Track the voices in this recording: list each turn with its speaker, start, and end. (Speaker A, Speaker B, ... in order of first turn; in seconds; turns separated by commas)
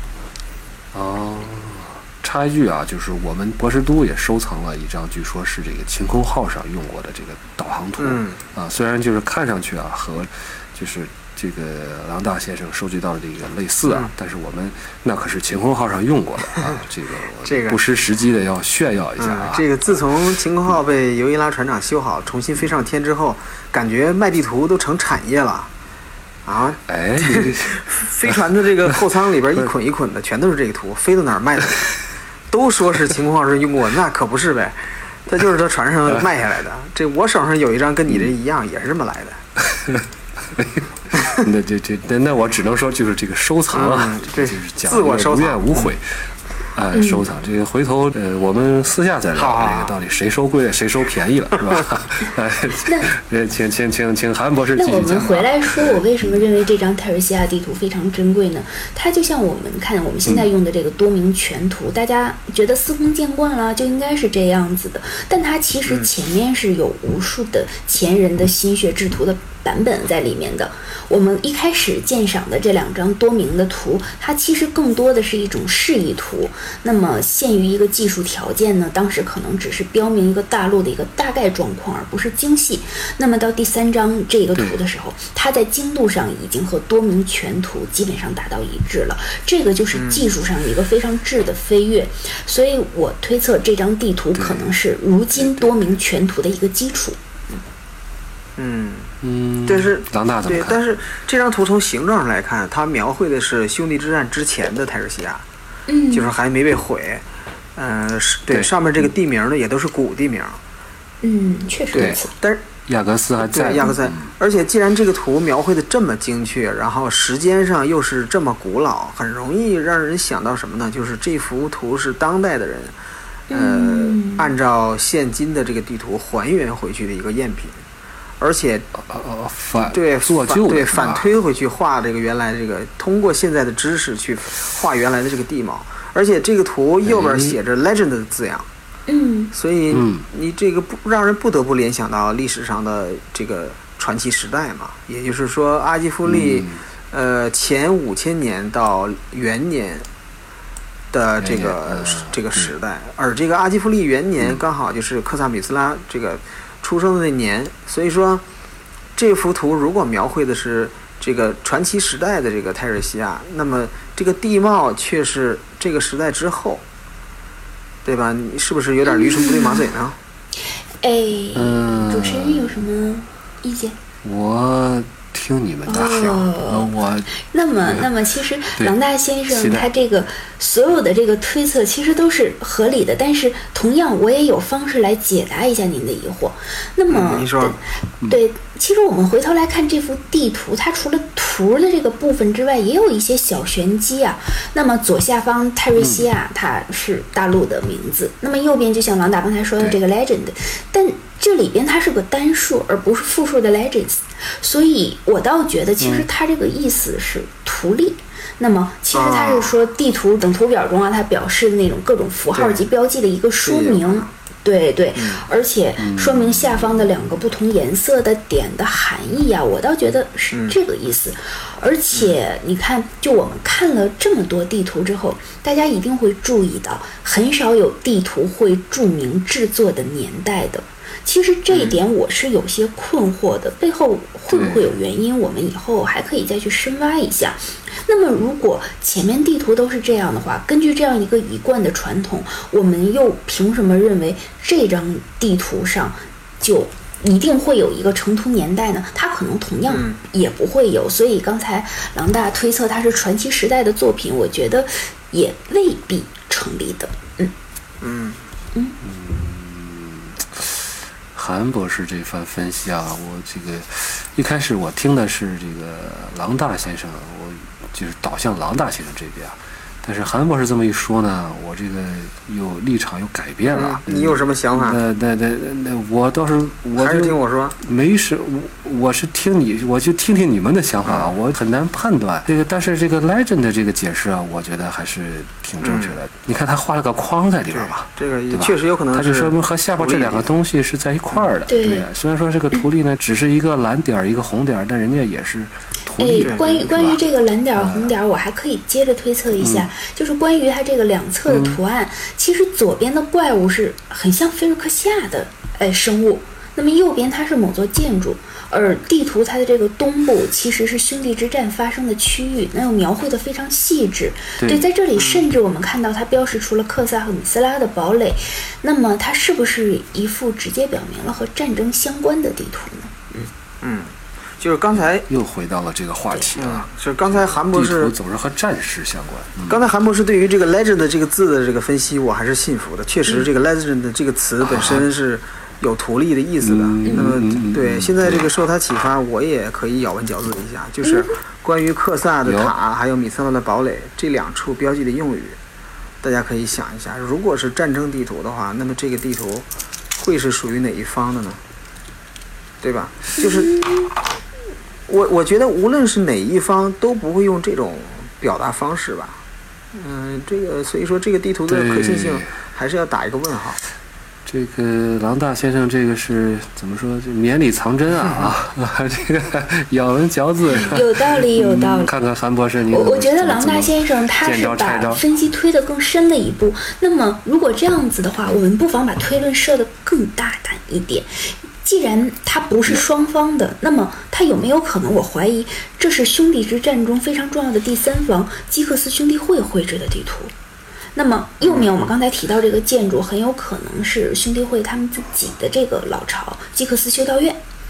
Speaker A: 0.9-19.6, Speaker B: 8.0-8.4, Speaker B: 13.9-14.1, Speaker B: 17.4-17.8, Speaker B: 19.2-25.7, Speaker B: 26.4-31.9, Speaker A: 26.9-28.4, Speaker B: 32.5-39.4, Speaker A: 39.6-46.0, Speaker B: 43.7-45.9, Speaker A: 46.7-56.4, Speaker C: 46.9-47.3, Speaker B: 49.3-49.9, Speaker C: 52.8-53.1, Speaker C: 54.8-97.2, Speaker B: 89.9-90.3, Speaker A: 94.3-94.7, Speaker B: 98.6-105.4, Speaker A: 99.2-100.8, Speaker C: 105.9-106.3, Speaker B: 106.1-107.2, Speaker B: 107.8-110.6, Speaker C: 111.2-112.3, Speaker B: 111.9-112.6, Speaker A: 112.9-114.3, Speaker B: 113.4-122.9, Speaker C: 123.5-124.5, Speaker B: 123.5-127.8, Speaker B: 128.4-128.9, Speaker A: 129.0-131.3, Speaker B: 129.9-138.7, Speaker A: 137.0-137.6, Speaker C: 139.1-139.5, Speaker B: 139.5-150.0, Speaker A: 139.9-140.2, Speaker A: 146.2-146.8, Speaker B: 151.1-158.4, Speaker A: 151.4-152.7, Speaker B: 159.2-166.8, Speaker B: 168.0-170.2, Speaker C: 169.0-169.9, Speaker C: 171.0-173.9, Speaker A: 171.5-172.8, Speaker A: 174.2-178.1, Speaker C: 175.8-257.5, Speaker B: 176.1-176.4, Speaker A: 179.5-179.9, Speaker B: 187.1-187.8, Speaker A: 196.0-196.3, Speaker A: 206.0-206.3, Speaker B: 209.1-209.7, Speaker B: 212.5-212.8, Speaker B: 213.6-214.3, Speaker B: 215.2-215.4, Speaker A: 216.0-217.3, Speaker B: 231.7-232.0, Speaker A: 234.5-234.9, Speaker B: 249.9-250.2, Speaker B: 258.0-258.4, Speaker A: 259.0-297.2, Speaker B: 273.7-275.0, Speaker B: 277.0-277.8, Speaker B: 281.1-281.3, Speaker B: 285.8-286.2, Speaker B: 287.7-290.5, Speaker C: 291.7-292.1, Speaker C: 296.2-323.5, Speaker B: 296.4-296.8, Speaker A: 297.7-298.1, Speaker A: 299.6-299.9, Speaker A: 301.5-301.8, Speaker A: 314.6-314.8, Speaker B: 315.1-315.5, Speaker B: 323.8-325.3, Speaker A: 324.9-329.8, Speaker B: 326.6-328.1, Speaker B: 329.7-345.6, Speaker A: 334.6-335.0, Speaker A: 336.6-338.5, Speaker C: 337.0-337.3, Speaker A: 342.4-342.7, Speaker B: 346.2-349.6, Speaker B: 350.2-351.6, Speaker B: 352.8-353.8, Speaker C: 353.4-354.1, Speaker B: 355.1-359.4, Speaker B: 359.9-363.8, Speaker A: 361.7-362.5, Speaker A: 364.4-375.2, Speaker C: 370.8-372.1, Speaker C: 372.9-390.5, Speaker C: 391.1-397.6, Speaker B: 391.6-391.9